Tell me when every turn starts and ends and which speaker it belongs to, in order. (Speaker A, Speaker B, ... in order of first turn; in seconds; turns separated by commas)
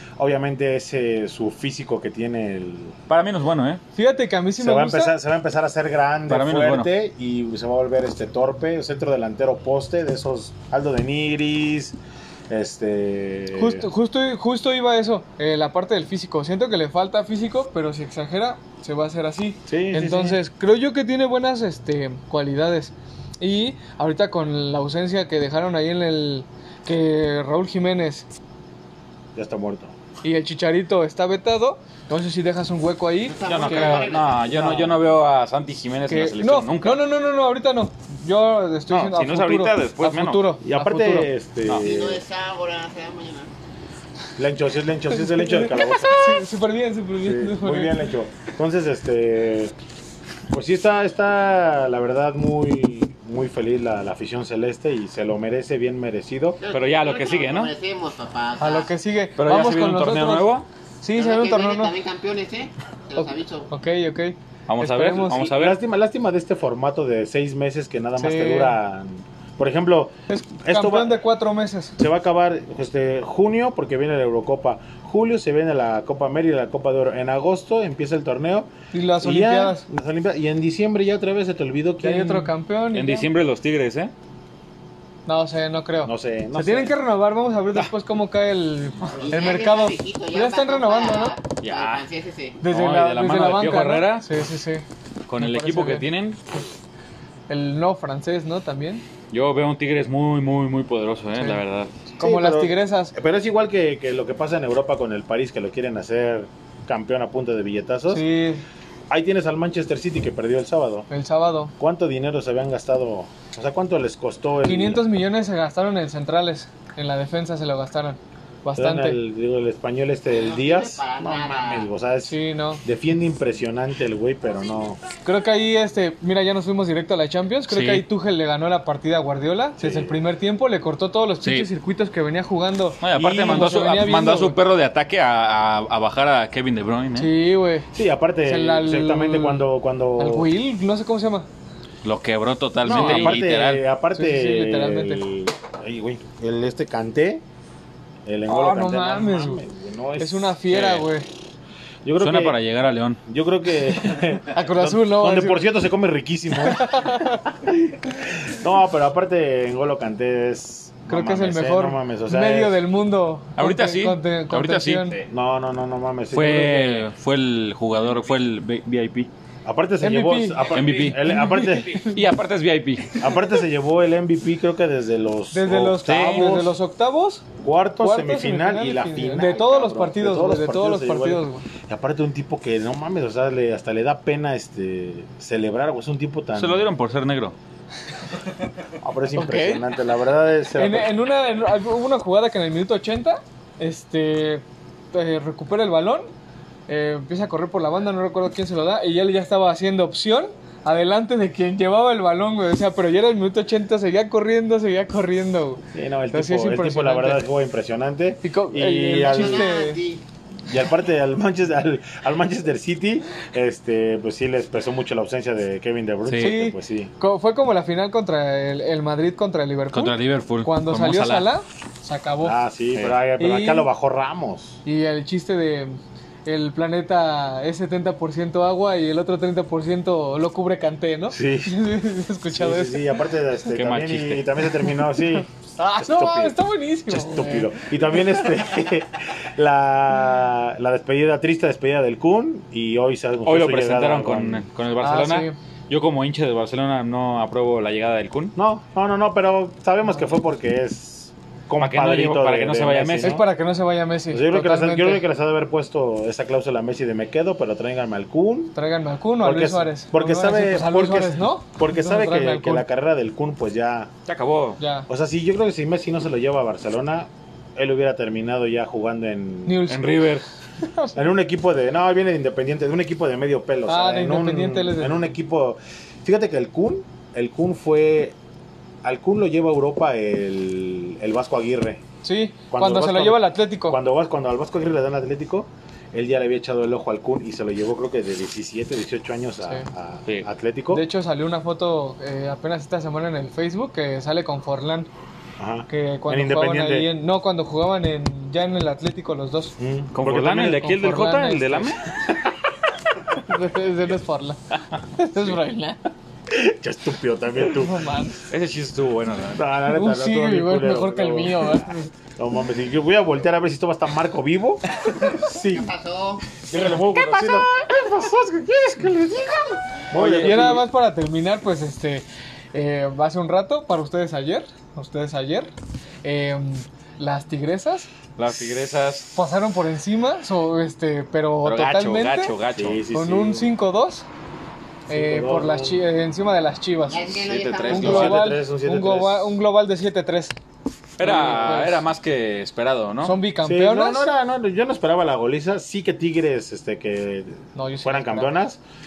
Speaker A: 0.2-3.0, Speaker B: 3.1-3.8, Speaker C: 3.9-5.1, Speaker A: 4.6-12.0, Speaker B: 6.3-6.9, Speaker A: 12.5-13.8, Speaker C: 13.5-28.3, Speaker A: 19.7-20.4, Speaker A: 29.3-29.9, Speaker C: 30.2-34.1, Speaker D: 33.2-34.5, Speaker B: 33.4-37.0, Speaker A: 34.5-35.0, Speaker C: 36.1-41.3, Speaker B: 38.9-40.5, Speaker A: 40.6-42.2, Speaker D: 41.7-43.5, Speaker A: 44.4-46.4, Speaker C: 45.3-48.0, Speaker A: 47.2-49.7, Speaker A: 50.5-56.6, Speaker D: 56.6-58.9, Speaker B: 56.7-57.7, Speaker C: 58.6-60.5, Speaker B: 59.4-60.7, Speaker C: 61.0-61.9, Speaker D: 61.1-63.7, Speaker C: 63.2-65.5, Speaker B: 64.7-65.8, Speaker A: 65.3-71.2, Speaker C: 68.2-68.8, Speaker C: 70.3-72.0, Speaker A: 72.0-82.5, Speaker C: 78.9-79.8, Speaker C: 82.0-83.3, Speaker B: 82.9-84.1, Speaker C: 85.2-91.4, Speaker A: 86.0-86.9, Speaker D: 89.2-92.6, Speaker B: 91.6-92.0, Speaker C: 92.6-94.8, Speaker B: 92.6-94.3, Speaker B: 95.3-96.4, Speaker C: 95.4-96.1, Speaker C: 97.5-99.0, Speaker B: 99.3-101.9, Speaker C: 101.4-101.6, Speaker C: 102.2-103.1, Speaker A: 102.2-108.2, Speaker C: 108.1-108.6, Speaker A: 109.1-111.1, Speaker C: 111.1-111.7, Speaker A: 111.8-115.0, Speaker C: 114.6-119.2, Speaker A: 118.8-125.0, Speaker D: 120.3-121.9, Speaker C: 122.2-122.8, Speaker C: 125.2-134.6, Speaker B: 127.7-128.0, Speaker A: 129.8-130.2, Speaker B: 131.4-131.7, Speaker B: 133.0-137.3, Speaker A: 133.1-133.7, Speaker C: 137.2-137.9, Speaker A: 137.9-140.5, Speaker C: 138.4-141.5, Speaker B: 142.0-143.8, Speaker A: 142.8-147.4, Speaker C: 142.8-143.5, Speaker C: 144.1-145.2, Speaker A: 148.2-150.6, Speaker C: 148.4-149.6, Speaker C: 150.2-151.3, Speaker B: 150.7-151.1, Speaker A: 152.0-152.6, Speaker B: 152.2-153.2, Speaker A: 153.2-162.8, Speaker C: 154.5-155.6, Speaker C: 156.6-157.4, Speaker C: 161.1-165.2, Speaker B: 163.6-165.3, Speaker A: 165.3-167.1, Speaker B: 166.3-169.3, Speaker A: 169.6-172.0, Speaker C: 170.0-172.2, Speaker B: 170.7-171.3, Speaker B: 172.0-173.2, Speaker A: 173.2-176.7, Speaker C: 175.5-177.4, Speaker B: 176.1-176.7, Speaker A: 177.6-186.9, Speaker C: 178.0-181.7, Speaker B: 186.5-187.6, Speaker A: 189.0-191.1, Speaker C: 189.3-189.8, Speaker C: 190.7-196.3, Speaker C: 196.9-207.5, Speaker A: 205.9-209.7, Speaker C: 208.4-210.0, Speaker D: 209.3-210.2, Speaker A: 210.7-217.1, Speaker B: 216.2-216.6, Speaker C: 216.4-222.6, Speaker B: 219.9-221.5, Speaker A: 222.4-224.8, Speaker C: 223.4-223.9, Speaker C: 224.8-233.1, Speaker A: 231.3-231.7, Speaker A: 232.5-244.7, Speaker B: 233.7-234.4, Speaker C: 235.8-237.8, Speaker B: 243.4-248.5, Speaker C: 245.0-245.5, Speaker A: 248.6-253.5, Speaker B: 251.8-253.4, Speaker C: 253.2-255.2, Speaker A: 254.3-258.7, Speaker C: 258.7-262.8, Speaker A: 259.4-264.1, Speaker B: 264.3-264.8, Speaker C: 264.8-265.1, Speaker A: 265.1-269.8, Speaker C: 269.6-270.3, Speaker B: 269.9-270.4, Speaker C: 270.8-271.2, Speaker A: 271.1-278.4, Speaker C: 273.9-275.3, Speaker A: 279.0-282.0, Speaker C: 282.2-284.0, Speaker A: 282.7-291.1, Speaker C: 290.9-295.1, Speaker A: 295.6-297.1, Speaker C: 295.9-299.7, Speaker A: 299.8-300.9, Speaker B: 300.1-302.0, Speaker C: 300.6-302.0, Speaker C: 303.4-304.6, Speaker B: 304.9-305.5, Speaker C: 305.1-306.1, Speaker A: 306.5-308.0, Speaker C: 307.7-308.4, Speaker B: 308.5-309.6, Speaker A: 309.5-315.9, Speaker C: 309.9-312.1, Speaker D: 315.7-316.5, Speaker A: 316.6-320.9, Speaker B: 320.1-320.8, Speaker C: 320.4-325.7, Speaker C: 326.2-328.1, Speaker B: 328.4-329.3, Speaker C: 329.3-332.5, Speaker B: 331.6-333.0, Speaker A: 332.7-333.7, Speaker C: 333.1-334.2, Speaker A: 335.1-336.0, Speaker C: 335.1-340.5, Speaker D: 337.1-338.4, Speaker B: 337.3-338.4, Speaker A: 337.9-339.6, Speaker C: 341.2-342.0, Speaker B: 341.2-343.4, Speaker C: 343.2-344.3, Speaker A: 343.6-348.8, Speaker C: 347.7-348.6